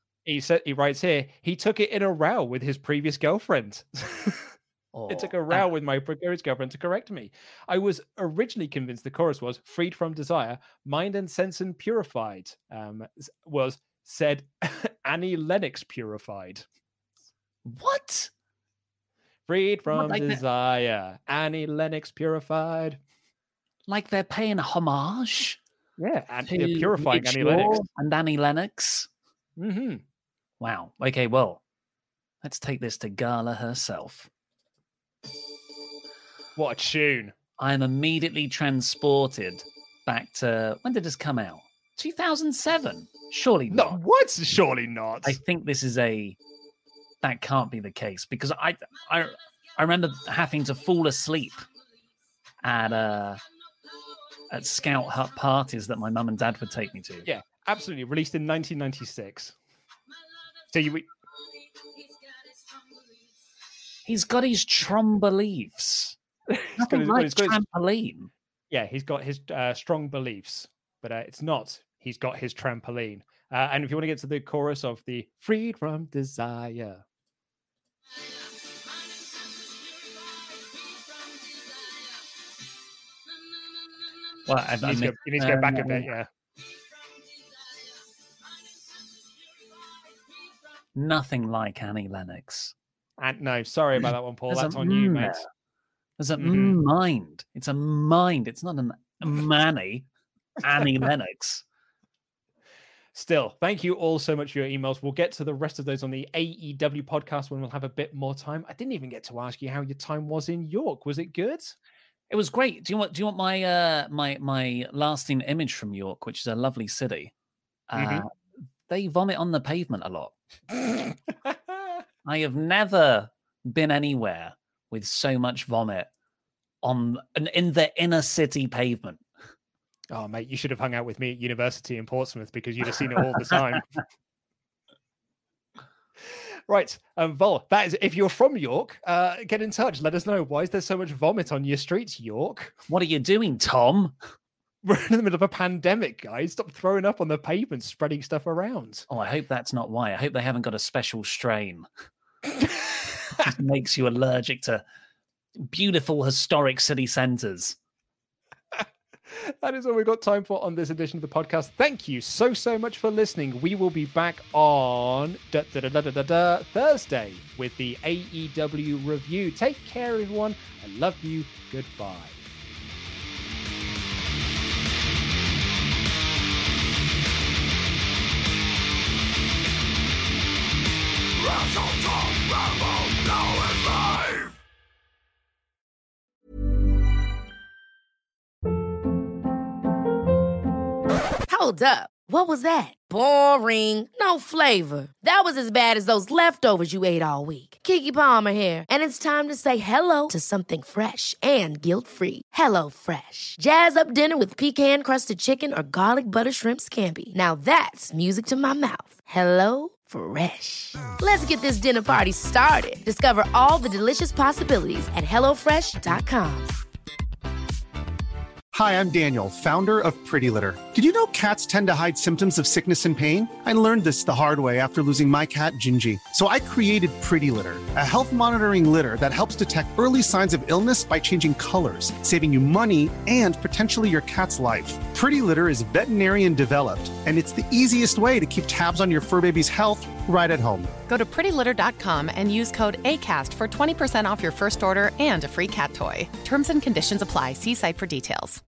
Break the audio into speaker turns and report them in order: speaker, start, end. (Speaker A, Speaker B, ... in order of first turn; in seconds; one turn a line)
Speaker A: 0.2-4.5
Speaker B: 4.9-5.7
Speaker A: 5.1-16.6
Speaker B: 17.6-18.3
Speaker A: 19.5-23.0
Speaker B: 19.9-20.4
Speaker B: 23.9-25.6
Speaker A: 26.0-27.9
Speaker B: 26.5-29.1
Speaker A: 29.6-30.0
Speaker B: 30.6-31.6
Speaker B: 32.4-34.3
Speaker A: 36.6-37.3
Speaker B: 37.6-44.0
Speaker A: 43.7-45.4
Speaker B: 45.2-46.4
Speaker B: 47.2-51.7
Speaker B: 52.6-53.4
Speaker B: 54.5-57.3
Speaker A: 57.2-59.6
Speaker A: 60.7-61.1
Speaker B: 64.0-66.2
Speaker A: 66.5-67.6
Speaker B: 66.8-68.3
Speaker A: 68.7-77.0
Speaker B: 84.5-86.1
Speaker A: 84.8-86.3
Speaker B: 91.0-92.8
Speaker A: 93.2-95.5
Speaker B: 94.5-95.5
Speaker B: 96.2-100.1
Speaker A: 96.4-96.8
Speaker B: 100.6-101.6
Speaker A: 100.8-101.1
Speaker A: 103.1-111.8
Speaker B: 112.3-117.3
Speaker B: 117.9-118.3
Speaker A: 118.0-118.2
Speaker B: 118.9-120.3
Speaker A: 121.5-121.8
Speaker B: 122.2-126.1
Speaker B: 126.8-129.2
Speaker A: 130.1-133.9
Speaker A: 136.3-142.8
Speaker B: 142.9-144.2
Speaker A: 144.8-149.1
Speaker B: 149.1-151.9
Speaker A: 152.6-152.9
Speaker B: 153.4-154.8
Speaker B: 155.6-157.8
Speaker A: 158.7-172.4
Speaker C: 191.5-216.8
Speaker D: 218.7-241.0
Speaker E: 241.1-248.6